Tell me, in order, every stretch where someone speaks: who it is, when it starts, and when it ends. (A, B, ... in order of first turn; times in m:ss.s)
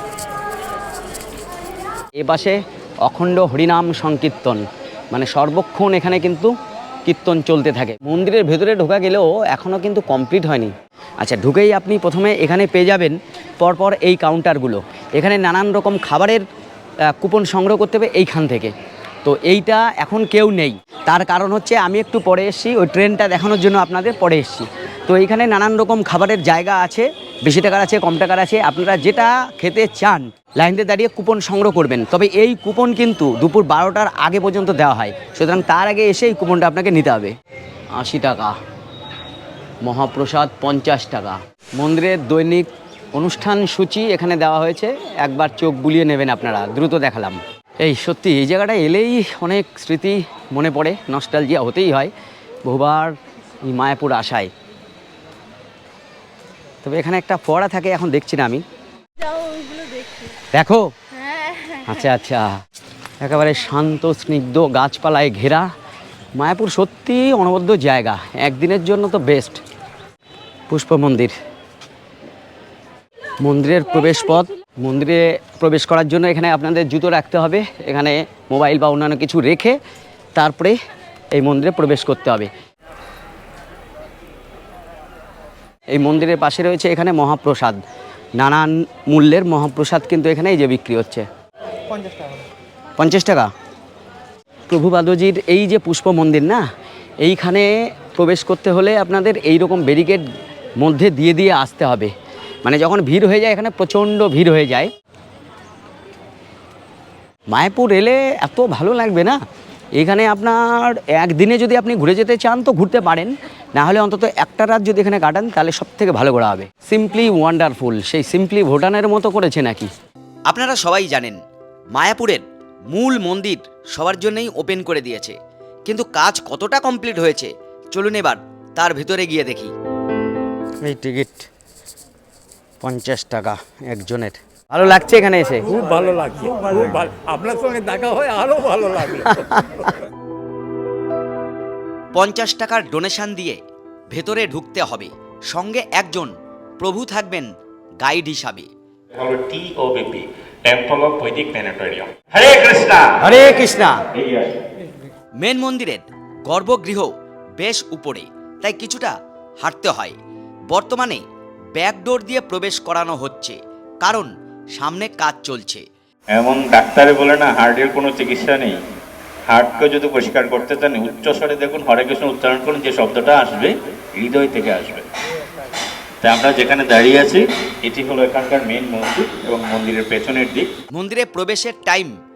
0:02.2-0:06.5 A
0:07.1-0:16.4 A
0:17.1-0:18.7 A
0:19.2-0:37.3 A
0:38.0-0:38.6 A
0:39.8-0:52.1 A
0:52.6-0:54.5 A
0:56.8-0:58.6 A
1:00.5-1:00.9 A
1:01.8-1:02.6 A
1:03.2-1:05.7 A
1:06.4-1:09.6 A
1:10.7-1:11.3 A
1:13.4-1:19.8 A
1:20.4-1:20.8 A
1:21.3-1:22.5 A
1:25.9-1:27.8 A
1:28.4-1:31.3 A
1:33.0-1:33.5 A
1:34.7-1:36.6 A
1:37.2-1:40.3 A
1:40.8-1:42.1 A
1:42.6-1:44.9 A
1:47.5-1:49.4 A
1:50.0-1:59.9 A
2:00.5-2:01.4 A
2:01.9-2:09.7 A
2:10.8-2:11.5 A
2:12.8-2:15.7 A
2:15.7-2:19.4 B
2:19.3-2:19.9 A
2:22.2-2:23.6 A
2:24.1-2:28.7 A
2:29.1-2:33.3 C
2:33.2-2:34.0 A
2:34.1-2:34.6 C
2:35.4-2:40.2 A
2:40.7-2:41.2 A
2:41.8-2:45.8 A
2:46.3-2:48.8 C
2:49.5-2:55.0 C
2:56.2-3:00.7 C
3:00.9-3:02.1 A